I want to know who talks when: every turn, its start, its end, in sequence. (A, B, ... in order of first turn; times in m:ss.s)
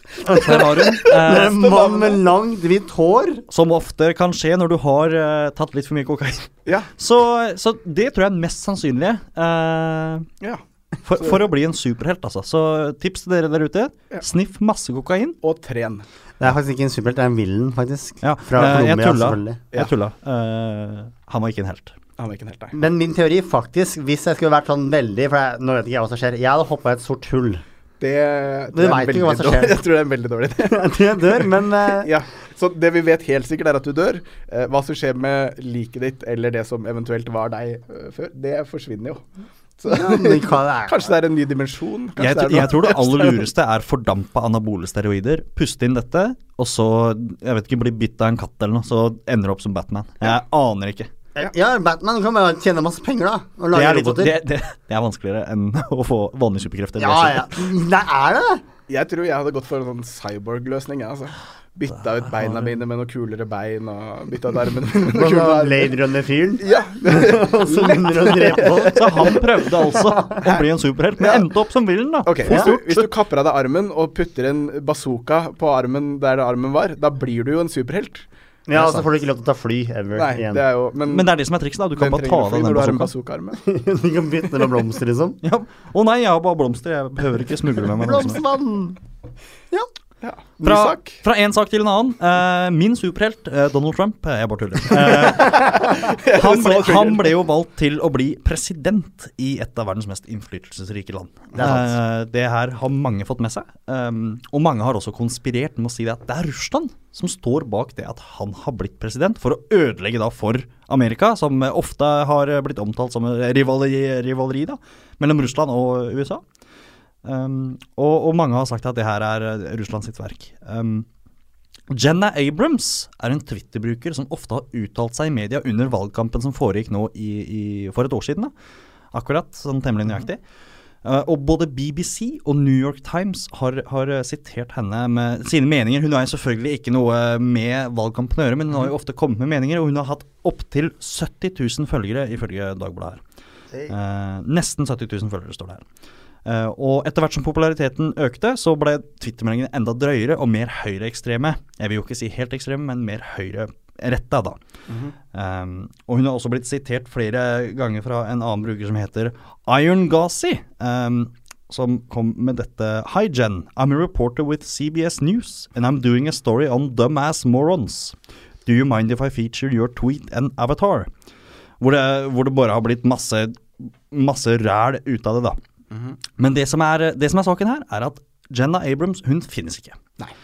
0:00.2-0:03.4 A
0:00.3-0:01.6 B
0:00.3-0:02.2 C
0:03.5-0:10.3 B
0:11.0-0:15.4 B
0:15.4-0:16.0 C
0:16.4-0:19.6 A
0:18.2-0:21.9 B
0:22.2-0:22.8 C
0:22.7-0:27.6 A
0:28.0-0:39.2 C
0:28.7-0:29.8 A
0:30.7-0:32.1 A
0:39.8-0:43.4 C
0:39.9-0:41.1 A
0:42.2-0:51.1 B
0:51.4-0:54.4 A
0:53.7-0:57.6 B
0:57.0-0:58.6 A
0:58.9-1:05.9 C
1:02.2-1:02.7 B
1:05.0-1:09.4 A
1:06.6-1:09.4 C
1:08.8-1:13.1 B
1:09.9-1:10.4 A
1:12.2-1:18.3 C
1:18.7-1:20.6 A
1:18.7-1:19.0 B
1:20.1-1:21.3 C
1:21.0-1:23.1 B
1:22.0-1:23.6 C
1:23.6-1:25.4 A
1:25.4-1:28.4 B
1:27.9-1:29.0 A
1:30.2-1:31.2 C
1:30.6-1:56.4 B
1:35.1-1:37.3 C
1:41.5-1:42.0 A
1:57.2-2:01.1 B
2:01.9-2:08.5 B
2:09.1-2:10.4 B
2:11.0-2:23.2 B
2:23.9-2:25.8 B
2:26.4-2:34.6 B
2:34.9-2:35.1 C
2:35.3-2:51.1 B
2:51.8-2:55.6 B
2:55.9-2:56.2 C
2:56.4-3:00.0 B